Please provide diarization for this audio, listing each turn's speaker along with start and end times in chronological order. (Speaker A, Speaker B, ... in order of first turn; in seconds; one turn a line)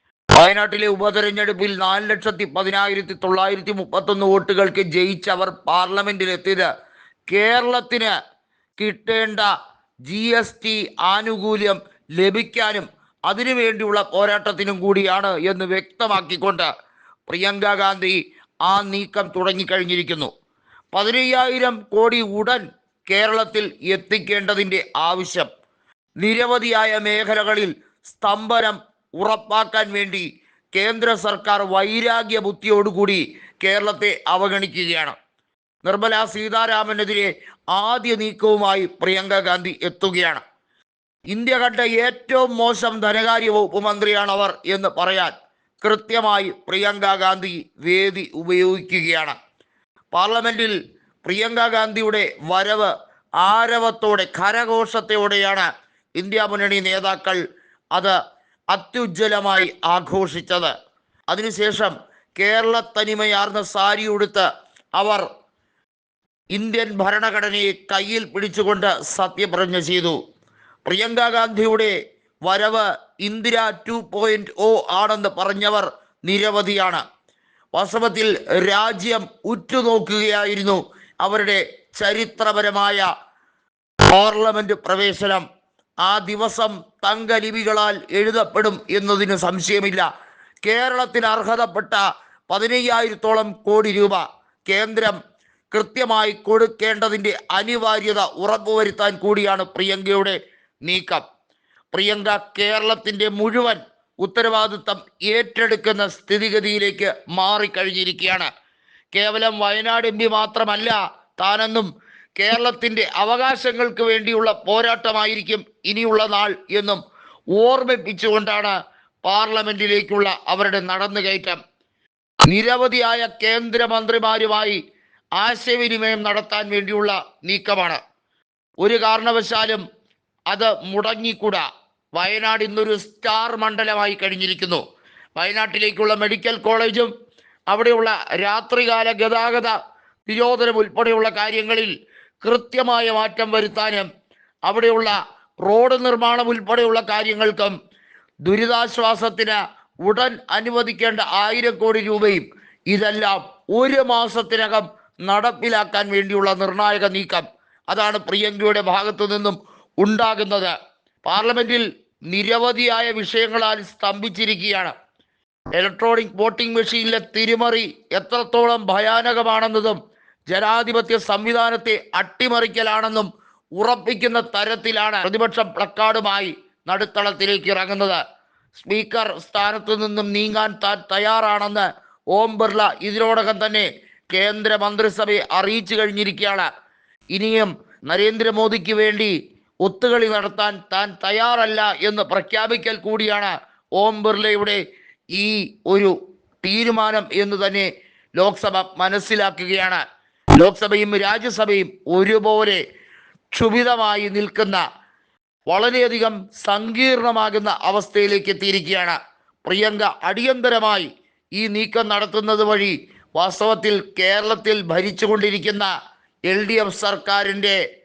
Speaker A: 0.4-6.7
Speaker A: 7.3-8.1
Speaker A: 8.8-9.5
Speaker A: 10.1-16.7
Speaker A: 17.3-20.3
Speaker A: 20.9-25.5
Speaker A: 26.2-35.1
Speaker A: 35.8-40.4
Speaker A: 41.3-49.3
Speaker A: 50.1-52.9
Speaker A: 53.4-57.4
Speaker A: 58.7-60.7
Speaker A: 61.3-64.5
Speaker A: 65.0-65.2
Speaker A: 66.5-70.2
Speaker A: 70.8-71.9
Speaker A: 72.5-77.0
Speaker A: 77.7-83.0
Speaker A: 84.1-85.4
Speaker A: 86.0-90.0
Speaker A: 90.6-95.2
Speaker A: 95.7-101.2
Speaker A: 101.9-108.5
Speaker A: 109.1-117.0
Speaker A: 117.5-118.7
Speaker A: 119.2-121.6
Speaker A: 122.5-124.8
Speaker A: 125.4-128.0
Speaker A: 128.8-129.8
Speaker A: 130.5-131.6
Speaker A: 132.2-134.8
Speaker A: 135.4-137.1
Speaker A: 137.7-139.7
Speaker A: 140.3-141.9
Speaker A: 142.4-144.1
Speaker A: 144.7-147.7
Speaker A: 148.4-160.7
Speaker A: 161.2-164.9
Speaker A: 165.7-170.0
Speaker A: 170.5-178.2
Speaker A: 178.8-186.7
Speaker A: 187.3-189.3
Speaker A: 189.8-194.8
Speaker A: 195.3-200.0
Speaker A: 200.6-202.8
Speaker A: 203.5-204.8
Speaker A: 205.7-215.9
Speaker A: 216.5-217.8